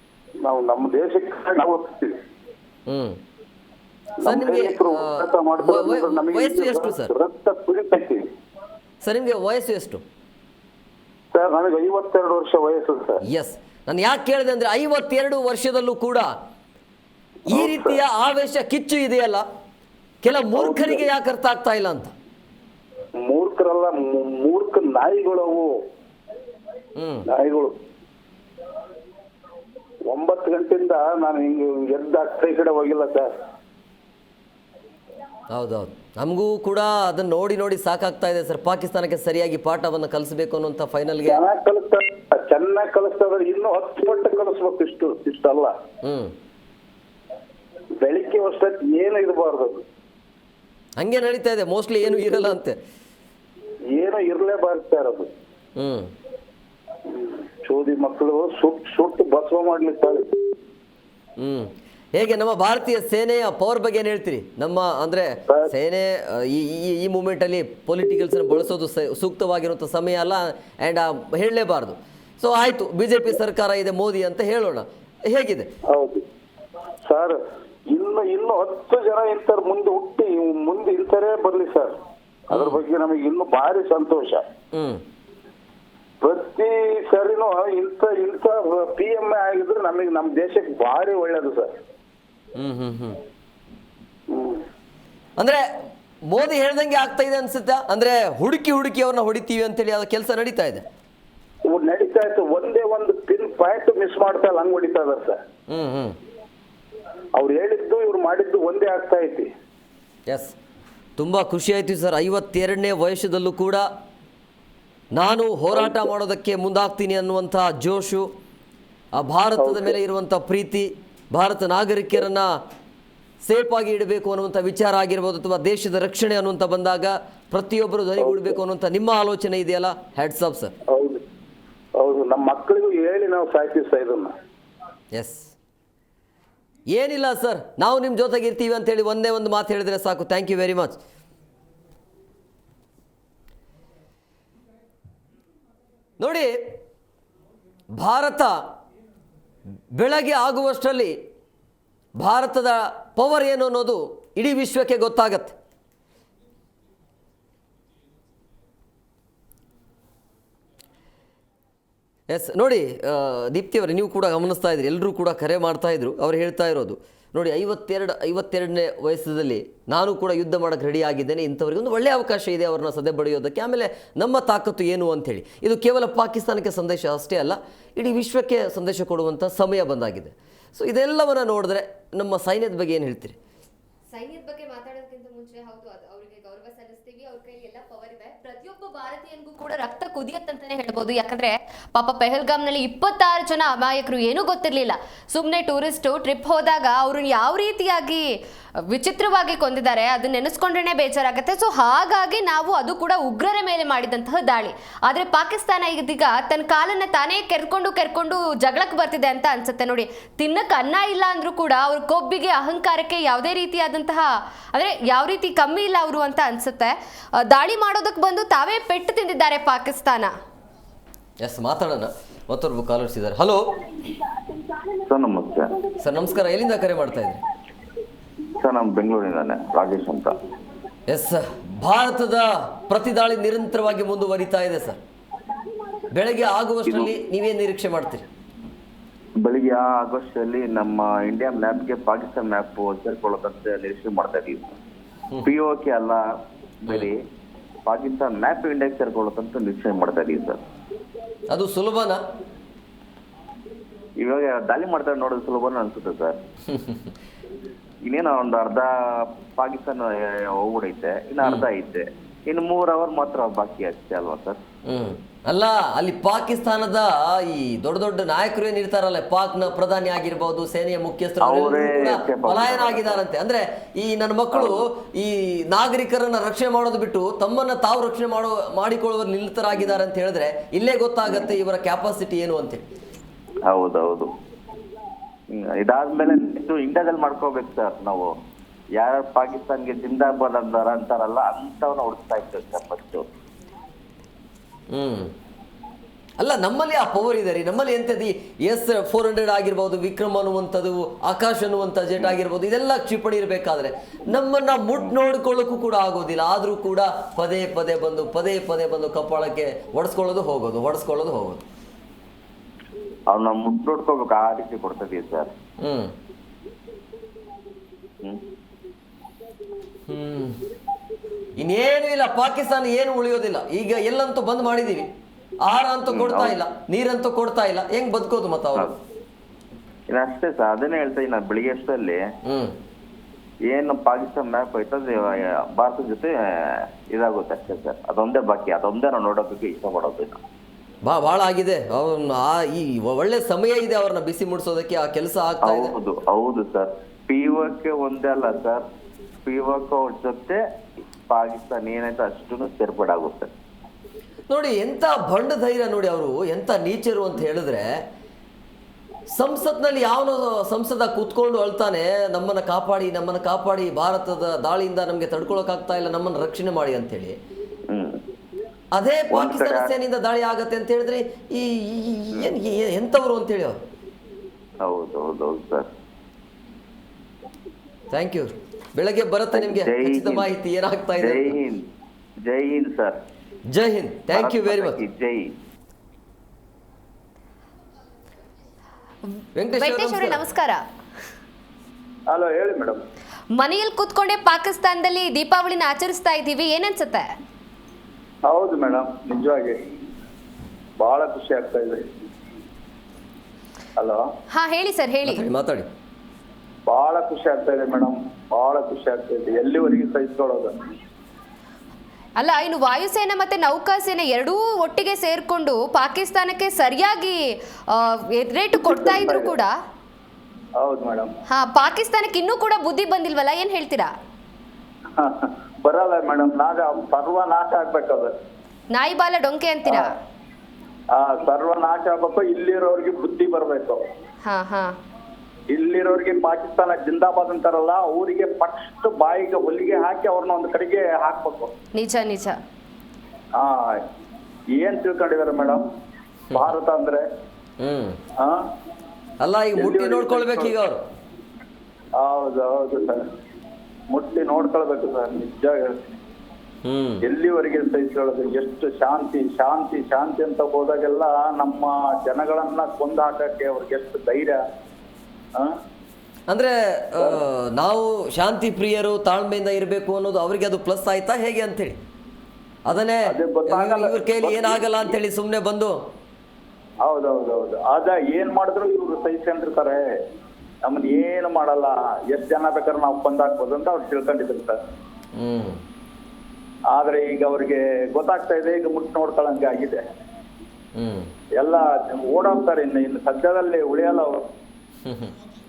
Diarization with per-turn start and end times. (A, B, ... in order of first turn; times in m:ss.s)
0:00.4-0:02.1 A
0:02.9-0:03.2 B
0:04.2-0:08.2 A
0:04.2-0:07.1 B
0:09.0-0:10.0 B
0:11.3-0:13.2 A
0:13.3-0:16.3 B
0:17.5-0:19.4 B
0:17.5-0:17.9 A
0:20.2-0:22.1 B
0:20.5-0:21.0 A
0:23.2-0:25.7 A
0:27.0-0:27.3 B
0:27.3-0:27.7 A
0:30.1-0:33.3 A
0:35.5-0:41.4 B
0:41.2-0:45.7 A
0:46.0-0:46.3 B
0:48.0-0:49.8 A
0:51.0-0:52.8 B
0:53.9-0:55.3 A
0:55.8-0:56.1 B
0:57.6-1:00.3 A
1:01.4-1:15.7 B
1:15.9-1:16.2 A
1:17.0-1:17.4 A
1:17.9-1:21.9 A
1:22.5-1:22.8 B
1:22.5-1:24.4 A
1:24.7-1:25.0 B
1:26.2-1:31.7 A
1:32.6-1:33.2 B
1:34.3-1:34.6 A
1:36.3-1:40.8 B
1:41.7-1:45.4 A
1:45.7-1:46.2 B
1:47.4-1:49.5 A
1:50.3-1:50.5 B
1:51.2-1:53.9 B
1:55.1-1:58.3 B
1:59.1-2:02.5 B
1:59.6-1:59.8 A
2:03.4-2:10.7 B
2:10.9-2:11.2 A
2:12.0-2:14.3 A
2:15.1-2:15.5 B
2:16.9-2:21.0 B
2:26.2-2:26.7 B
2:27.9-2:28.5 B
2:29.9-2:31.2 B
2:32.2-2:35.6 B
2:42.3-3:03.4 B
3:04.1-3:18.2 C
3:18.9-3:36.9 C
3:37.4-3:40.3 C
3:41.4-3:43.6 B
3:45.0-3:45.7 D
3:46.0-3:47.4 B
3:48.6-3:50.4 D
3:51.1-3:55.0 B
3:56.1-3:58.2 B
3:59.4-4:04.8 D
4:05.4-4:06.2 D
4:06.8-4:07.2 D
4:07.9-4:10.6 D
4:11.5-4:12.2 B
4:14.2-4:16.4 D
4:16.7-4:17.0 B
4:18.1-4:24.6 D
4:21.4-4:21.7 B
4:24.9-4:42.8 B
4:31.4-4:33.2 D
4:41.2-4:41.5 D
4:43.7-4:44.3 D
4:45.5-4:48.3 D
4:49.0-4:53.2 D
4:54.9-4:55.3 B
4:56.4-5:11.6 B
5:13.3-5:15.5 D
5:15.8-5:16.1 B
5:20.1-5:20.6 B
5:21.6-5:25.1 B
5:25.6-5:28.9 B
5:26.1-5:26.6 D
5:30.1-5:32.2 D
5:32.4-5:32.7 B
5:33.7-5:40.4 D
5:41.0-5:45.9 B
5:45.6-5:48.8 D
5:49.4-5:50.6 D
5:51.3-5:53.5 D
5:54.5-5:57.9 B
5:59.3-6:07.4 B
6:07.9-6:08.2 D
6:08.9-6:13.8 B
6:09.3-6:09.9 D
6:14.9-6:15.9 D
6:18.1-6:21.6 B
6:19.5-6:20.5 D
6:21.2-6:21.8 D
6:22.5-6:23.2 D
6:23.7-6:25.0 B
6:24.3-6:25.5 D
6:29.6-6:30.4 B
6:29.8-6:30.8 C
6:32.3-6:33.0 E
6:33.5-6:37.3 C
6:38.5-6:39.8 E
6:41.0-6:42.0 E
6:44.5-6:45.4 C
6:45.2-6:45.9 B
6:46.9-6:50.7 E
6:52.4-6:57.4 C
6:57.9-6:59.7 C
6:58.8-6:59.5 E
7:00.8-7:01.3 E
7:01.5-7:04.1 C
7:05.8-7:08.3 E
7:08.9-7:10.1 C
7:11.2-7:14.0 E
7:14.4-7:14.9 C
7:15.7-7:21.7 E
7:21.9-7:22.6 C
7:24.8-7:25.8 E
7:26.5-7:27.2 E
7:27.8-7:28.2 B
7:29.4-7:31.0 B
7:29.8-7:30.7 E
7:32.2-7:33.2 E
7:34.1-7:36.0 E
7:36.9-7:37.2 B
7:37.3-7:44.6 E
7:46.5-7:52.0 B
7:52.8-7:56.0 B
7:53.3-7:55.1 E
7:57.1-8:00.0 E
8:00.9-8:04.8 E
8:05.4-8:05.8 B
8:07.0-8:10.0 E
8:11.0-8:11.3 B
8:11.6-8:14.4 E
8:15.1-8:15.3 B